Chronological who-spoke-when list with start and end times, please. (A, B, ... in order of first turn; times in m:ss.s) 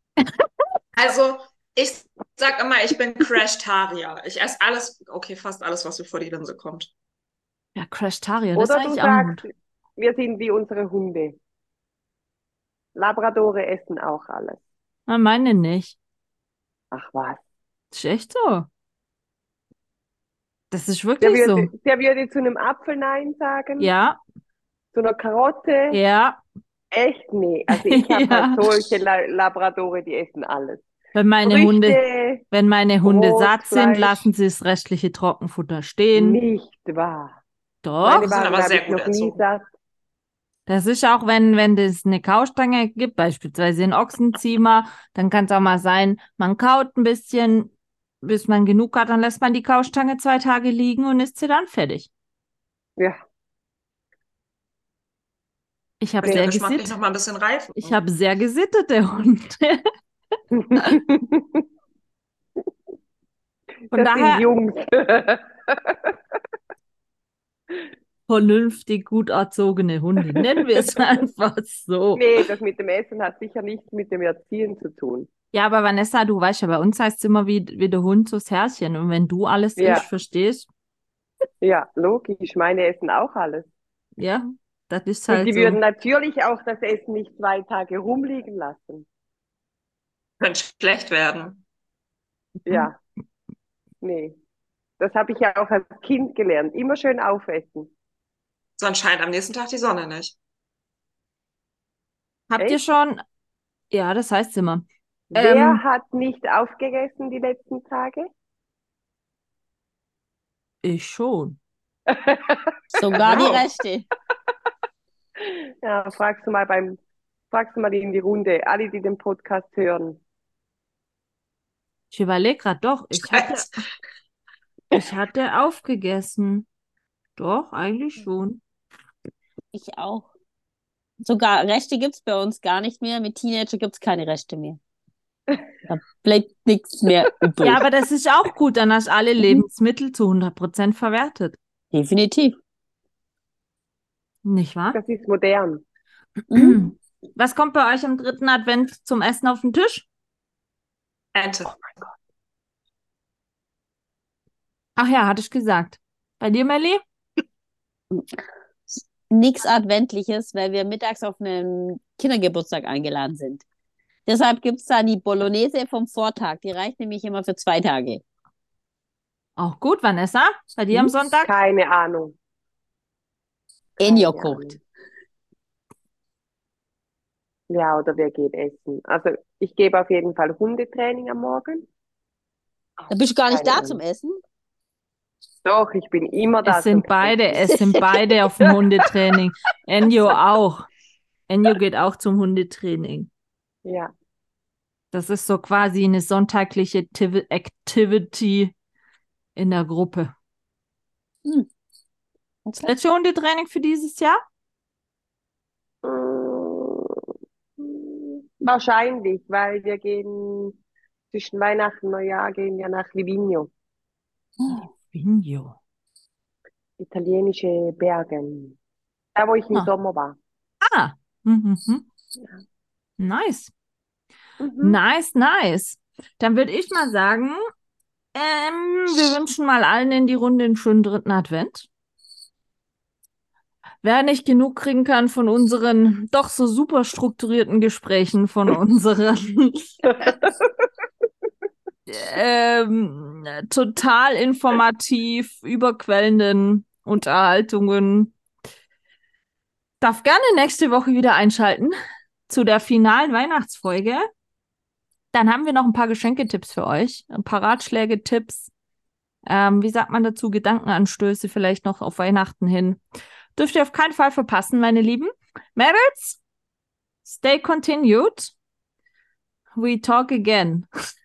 0:00.9-0:06.9 A
0:07.7-0:09.4 B
0:08.5-0:11.4 C
0:13.0-0:14.6 C
0:15.1-0:16.0 B
0:16.9-0:17.4 C
0:17.9-0:18.7 B
0:20.7-0:21.7 B
0:21.2-0:23.9 C
0:23.8-0:24.2 B
0:24.9-0:26.0 C
0:25.9-0:26.4 B
0:26.9-0:30.8 C
0:27.7-0:28.7 B
0:31.1-0:32.0 B
0:31.4-0:32.4 C
0:32.5-0:36.4 B
0:33.0-0:34.2 C
0:36.1-0:37.4 C
0:37.8-0:38.3 B
0:38.0-0:39.6 C
0:38.3-0:39.4 A
0:40.7-0:52.1 B
0:56.0-0:57.0 B
0:56.2-0:58.0 A
0:57.8-0:59.8 B
1:00.5-1:01.6 C
1:03.9-1:06.1 C
1:03.9-1:04.4 B
1:08.3-1:12.3 B
1:12.1-1:15.3 C
1:15.5-1:20.7 B
1:19.8-1:20.0 C
1:21.6-1:23.7 C
1:24.2-1:25.8 B
1:25.3-1:29.0 C
1:30.4-1:31.6 A
1:32.6-1:33.0 C
1:34.0-1:34.4 C
1:35.0-1:37.9 C
1:38.8-1:40.4 A
1:42.5-1:43.2 B
1:43.9-1:45.8 B
1:45.3-1:48.3 C
1:50.8-1:51.6 B
1:52.1-1:53.5 C
1:52.9-1:54.0 D
1:55.4-1:57.0 C
1:57.5-2:00.2 C
2:02.1-2:03.7 B
2:03.3-2:03.6 A
2:04.9-2:06.6 B
2:07.4-2:08.6 B
2:09.7-2:10.3 D
2:11.2-2:14.8 D
2:15.9-2:17.8 D
2:17.6-2:21.6 B
2:21.9-2:22.6 D
2:24.4-2:25.0 B
2:24.9-2:25.8 C
2:26.5-2:26.9 D
2:26.5-2:30.1 B
2:31.3-2:31.9 A
2:35.0-2:37.0 B
2:39.3-2:43.6 D
2:44.2-2:48.2 D
2:49.6-2:51.5 B
2:51.4-2:52.3 C
2:54.0-2:54.8 C
2:54.0-2:54.8 D
2:57.7-3:01.8 C
3:03.0-3:04.0 C
3:03.1-3:04.4 D
3:05.6-3:07.8 C
3:06.6-3:10.9 B
3:11.5-3:13.3 B
3:13.8-3:14.1 C
3:15.1-3:18.7 B
3:19.6-3:20.3 B
3:22.6-3:22.9 D
3:22.8-3:24.4 B
3:26.0-3:27.2 C
3:27.8-3:30.8 C
3:31.3-3:33.7 C
3:34.6-3:34.8 D
3:34.7-3:35.8 B
3:37.0-3:38.8 C
3:39.3-3:40.4 C
3:40.8-3:42.0 B
3:43.2-3:43.7 B
3:44.6-3:45.0 C
3:44.8-3:47.6 B
3:48.3-3:51.9 B
3:54.0-4:00.3 B
4:00.4-4:00.7 C
4:02.1-4:08.3 B
4:10.0-4:12.0 B
4:12.5-4:14.3 B
4:15.3-4:18.7 B
4:19.4-4:23.0 B
4:23.5-4:26.4 B
4:27.2-4:28.5 B
4:29.7-4:30.9 B